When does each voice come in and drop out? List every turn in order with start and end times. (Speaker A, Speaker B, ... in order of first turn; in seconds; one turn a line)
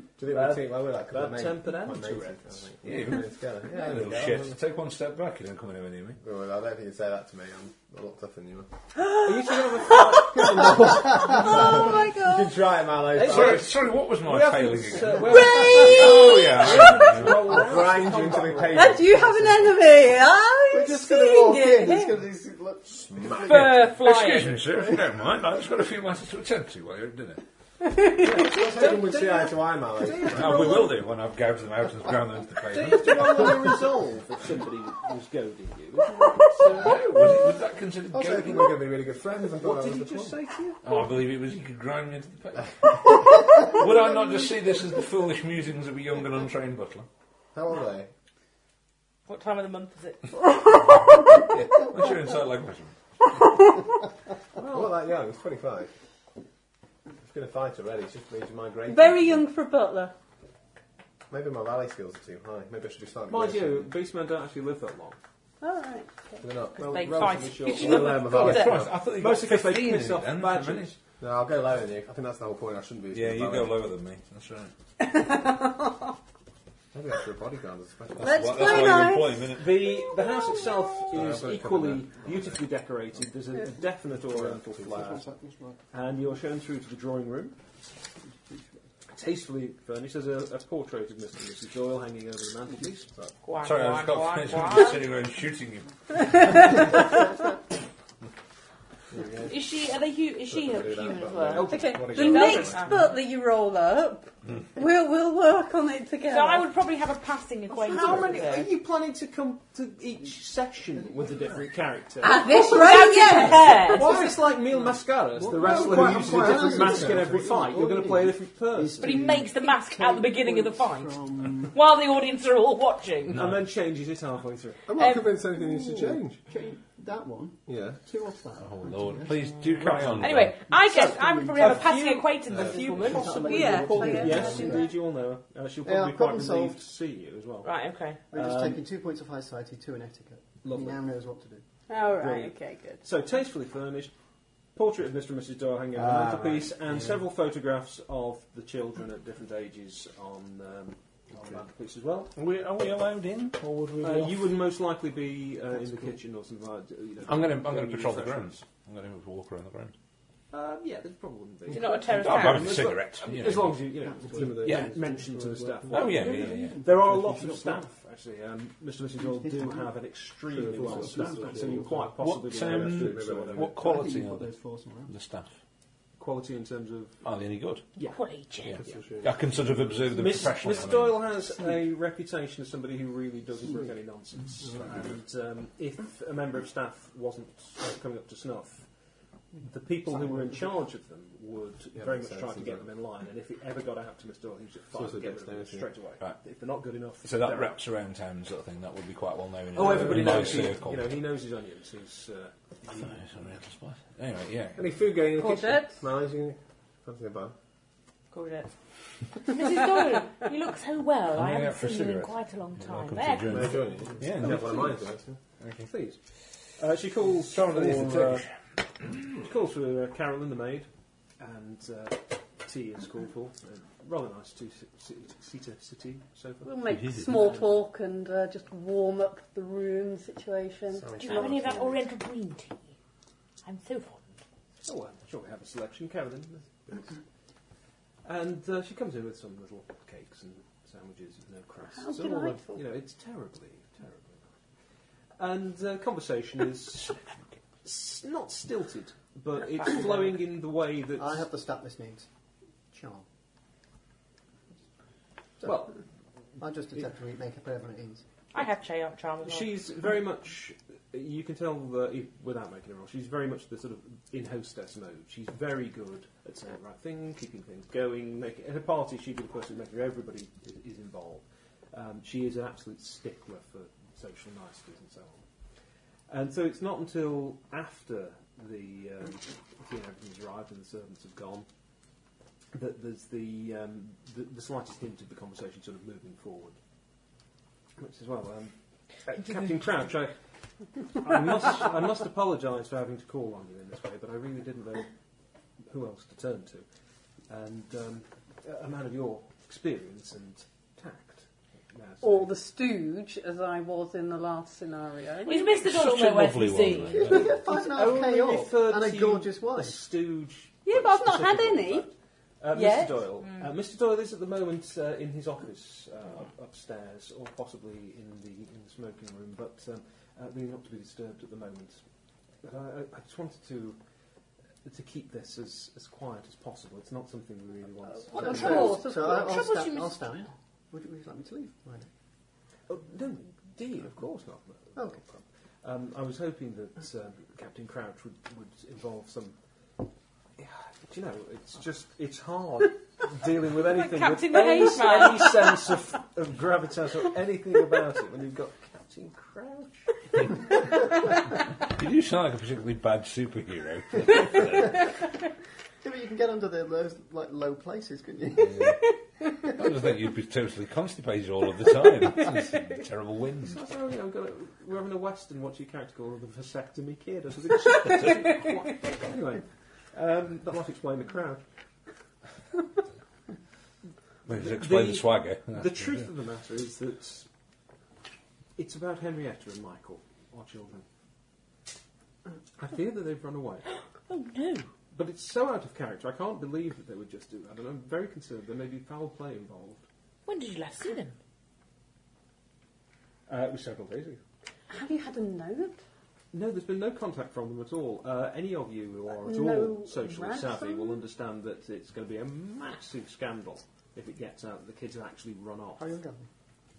Speaker A: 0.2-4.5
Speaker B: 0.3-2.7
Speaker C: 2.8-6.2
Speaker A: 6.2-8.7
Speaker D: 8.9-12.6
Speaker B: 9.2-12.0
Speaker A: 11.1-13.8
Speaker B: 13.1-18.9
Speaker C: 13.2-17.6
Speaker D: 15.2-17.1
Speaker A: 16.8-19.2
Speaker E: 18.6-19.8
Speaker D: 18.7-22.1
Speaker E: 20.7-23.8
Speaker A: 23.0-23.6
Speaker F: 23.4-24.6
Speaker C: 23.5-27.4
Speaker D: 27.8-28.7
Speaker A: 28.2-30.9
Speaker B: 28.2-30.9
Speaker C: 30.2-33.5
Speaker B: 32.7-37.4
Speaker C: 36.7-38.8
Speaker A: 38.1-40.4
Speaker B: 39.5-40.8
Speaker C: 40.8-47.1
Speaker A: 47.5-48.1
Speaker F: 49.3-50.2
Speaker D: 50.9-51.3
Speaker C: 51.0-52.9
Speaker B: 54.6-55.0
Speaker A: 54.6-55.9
Speaker A: 57.2-59.5
Speaker D: 58.9-60.1
Speaker A: 61.3-63.9
Speaker B: 63.3-65.2
Speaker D: 65.6-66.4
Speaker A: 66.4-69.1
Speaker F: 66.8-68.7
Speaker B: 66.9-71.0
Speaker C: 68.3-71.0
Speaker A: 71.2-73.9
Speaker C: 73.1-74.7
Speaker D: 75.0-76.2
Speaker A: 76.9-78.9
Speaker C: 78.2-79.8
Speaker D: 78.2-80.6
Speaker B: 79.5-85.2
Speaker A: 81.1-82.6
Speaker A: 84.3-85.2
Speaker E: 84.9-85.8
Speaker B: 85.9-87.5
Speaker E: 88.2-88.7
Speaker B: 89.1-93.1
Speaker F: 93.4-95.0
Speaker C: 93.6-96.9
Speaker D: 96.5-97.0
Speaker A: 99.1-99.7
Speaker F: 99.5-103.0
Speaker A: 100.5-102.9
Speaker B: 101.5-102.7
Speaker D: 101.6-106.7
Speaker F: 106.3-108.7
Speaker B: 107.8-112.8
Speaker D: 107.9-108.1
Speaker D: 112.2-114.1
Speaker F: 112.6-114.1
Speaker B: 113.4-119.3
Speaker A: 113.9-114.4
Speaker E: 115.4-121.7
Speaker A: 115.4-117.5
Speaker F: 119.0-123.4
Speaker C: 123.3-123.6
Speaker B: 123.3-124.9
Speaker A: 124.8-126.4
Speaker F: 125.0-125.3
Speaker E: 125.6-130.0
Speaker A: 127.7-128.0
Speaker C: 128.6-130.6
Speaker B: 129.8-130.3
Speaker F: 130.2-133.6
Speaker E: 130.8-131.9
Speaker B: 130.9-137.7
Speaker A: 132.5-133.3
Speaker E: 132.5-134.9
Speaker D: 133.3-134.9
Speaker E: 135.8-136.8
Speaker F: 137.6-138.2
Speaker B: 138.3-138.8
Speaker E: 138.3-141.6
Speaker B: 140.6-141.0
Speaker D: 141.9-143.0
Speaker B: 142.2-144.1
Speaker B: 144.7-152.3
Speaker E: 145.9-146.8
Speaker C: 152.3-154.6
Speaker B: 154.0-158.6
Speaker C: 157.2-159.9
Speaker B: 160.5-173.7
Speaker A: 161.7-162.0
Speaker F: 161.7-162.9
Speaker C: 162.1-164.1
Speaker E: 164.0-167.9
Speaker C: 164.6-164.9
Speaker C: 165.9-166.8
Speaker E: 169.2-169.9
Speaker A: 170.5-173.7
Speaker E: 170.5-172.1
Speaker C: 172.2-175.5
Speaker E: 173.7-175.1
Speaker B: 176.2-177.2
Speaker C: 177.2-177.8
Speaker F: 178.1-178.8
Speaker C: 178.6-181.2
Speaker A: 178.7-180.0
Speaker B: 180.1-188.8
Speaker A: 184.6-185.2
Speaker B: 189.6-197.8
Speaker A: 191.9-192.9
Speaker A: 194.9-195.9
Speaker C: 197.2-201.1
Speaker B: 199.7-203.2
Speaker C: 202.9-204.9
Speaker A: 204.7-207.5
Speaker D: 205.3-206.0
Speaker F: 208.3-208.7
Speaker F: 209.3-213.6
Speaker C: 211.3-214.9
Speaker A: 213.4-215.4
Speaker B: 214.4-215.0
Speaker C: 215.6-215.9
Speaker B: 215.9-218.5
Speaker C: 217.4-218.6
Speaker B: 219.4-220.9
Speaker B: 221.4-226.8
Speaker D: 226.6-231.3
Speaker C: 226.8-227.5
Speaker A: 230.9-232.0
Speaker F: 231.2-232.8
Speaker F: 233.6-234.3
Speaker B: 234.8-237.1
Speaker B: 238.2-244.5
Speaker D: 241.9-242.8
Speaker B: 245.4-247.2
Speaker B: 247.8-251.4
Speaker F: 249.8-250.2
Speaker E: 251.2-252.3
Speaker E: 252.9-253.2
Speaker B: 255.6-256.0
Speaker E: 256.6-258.2
Speaker F: 258.5-259.7
Speaker B: 259.4-275.4
Speaker B: 276.3-281.7
Speaker B: 282.7-286.8
Speaker B: 288.0-288.7
Speaker B: 289.2-290.4
Speaker B: 291.0-295.1
Speaker B: 295.8-296.8
Speaker B: 297.5-302.5
Speaker D: 302.2-305.7
Speaker F: 305.4-307.3
Speaker C: 305.7-307.6
Speaker E: 307.1-310.0
Speaker B: 307.3-322.0
Speaker D: 310.8-312.1
Speaker D: 312.7-313.2
Speaker B: 322.6-324.0
Speaker B: 324.8-329.0
Speaker D: 328.3-329.4
Speaker E: 328.3-332.1
Speaker F: 328.5-330.2
Speaker B: 332.9-339.6
Speaker B: 340.6-350.1
Speaker F: 343.9-345.6
Speaker C: 351.9-355.1
Speaker E: 356.0-359.0
Speaker C: 358.6-359.0
Speaker C: 359.7-363.8
Speaker B: 363.7-371.6
Speaker C: 374.4-376.2
Speaker B: 374.5-377.5
Speaker B: 378.8-381.1
Speaker B: 382.8-383.9
Speaker F: 383.9-384.9
Speaker B: 385.1-390.0
Speaker F: 390.4-391.4
Speaker B: 393.5-394.4
Speaker D: 394.9-396.0
Speaker B: 396.5-406.1
Speaker D: 399.4-401.2
Speaker E: 406.0-406.5